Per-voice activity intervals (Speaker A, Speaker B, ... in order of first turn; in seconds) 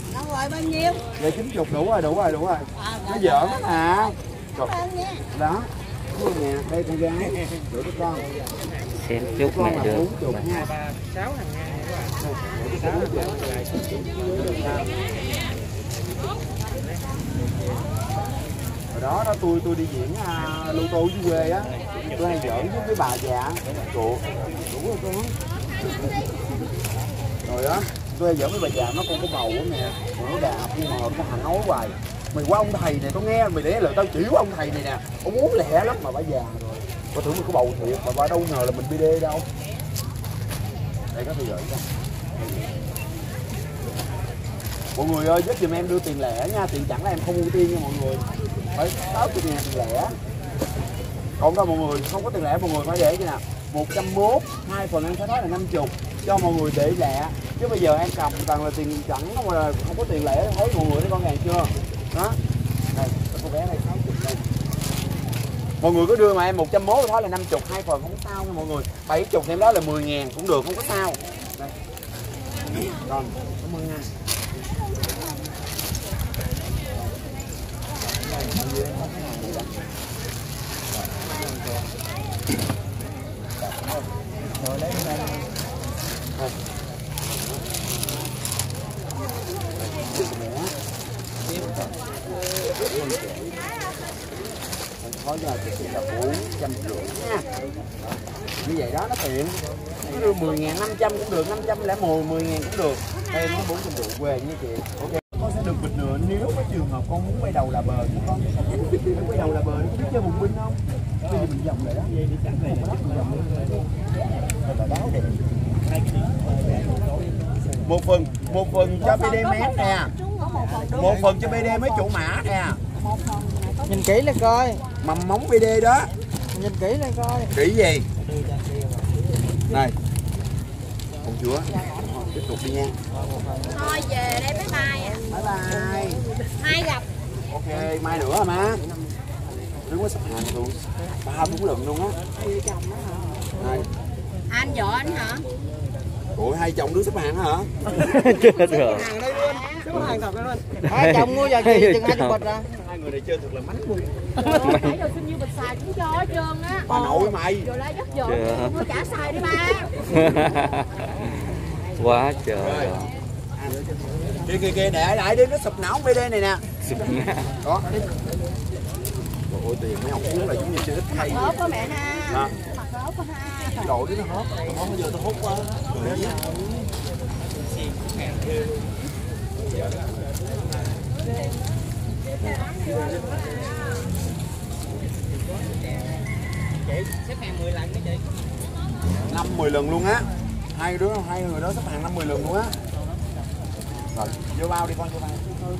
Speaker A: 0.1-1.0, 4.6-5.2, 119.0-121.1, 123.0-124.0, 133.7-135.2, 136.6-137.1, 144.5-145.4, 148.6-149.9, 154.4-159.9, 171.2-173.7
Speaker B: 1.2-4.7, 5.3-8.3, 9.3-10.7, 12.2-14.9, 18.9-25.3, 27.4-39.5, 41.1-41.9, 44.9-50.1, 51.4-62.4, 62.9-64.4, 65.8-71.7, 72.9-74.1, 78.2-79.7, 83.6-84.0, 89.8-90.7, 91.4-91.9, 92.7-93.6, 95.0-97.5, 98.6-113.8, 114.6-115.3, 117.8-120.1, 120.9-122.8, 125.0-126.1, 127.5-128.1, 129.7-129.9, 131.2-132.9, 135.3-136.2, 137.5-138.8, 139.8-142.2, 143.6-143.9, 146.3-147.7, 152.6-154.2, 156.9-157.7, 162.6-163.8, 164.4-166.6, 167.6-167.9, 169.5-171.6, 173.7-176.4, 189.3-192.7, 194.1-195.4
Speaker C: 2.9-3.4, 84.6-85.5, 120.7-121.4, 123.8-124.8, 126.5-127.5, 128.2-129.1, 133.1-134.0, 149.3-152.7, 154.4-154.7, 175.3-175.7
Speaker D: 8.9-10.7, 147.8-149.1, 149.9-150.2, 150.8-152.5, 154.6-154.9, 158.2-158.9, 160.1-163.1, 166.8-167.5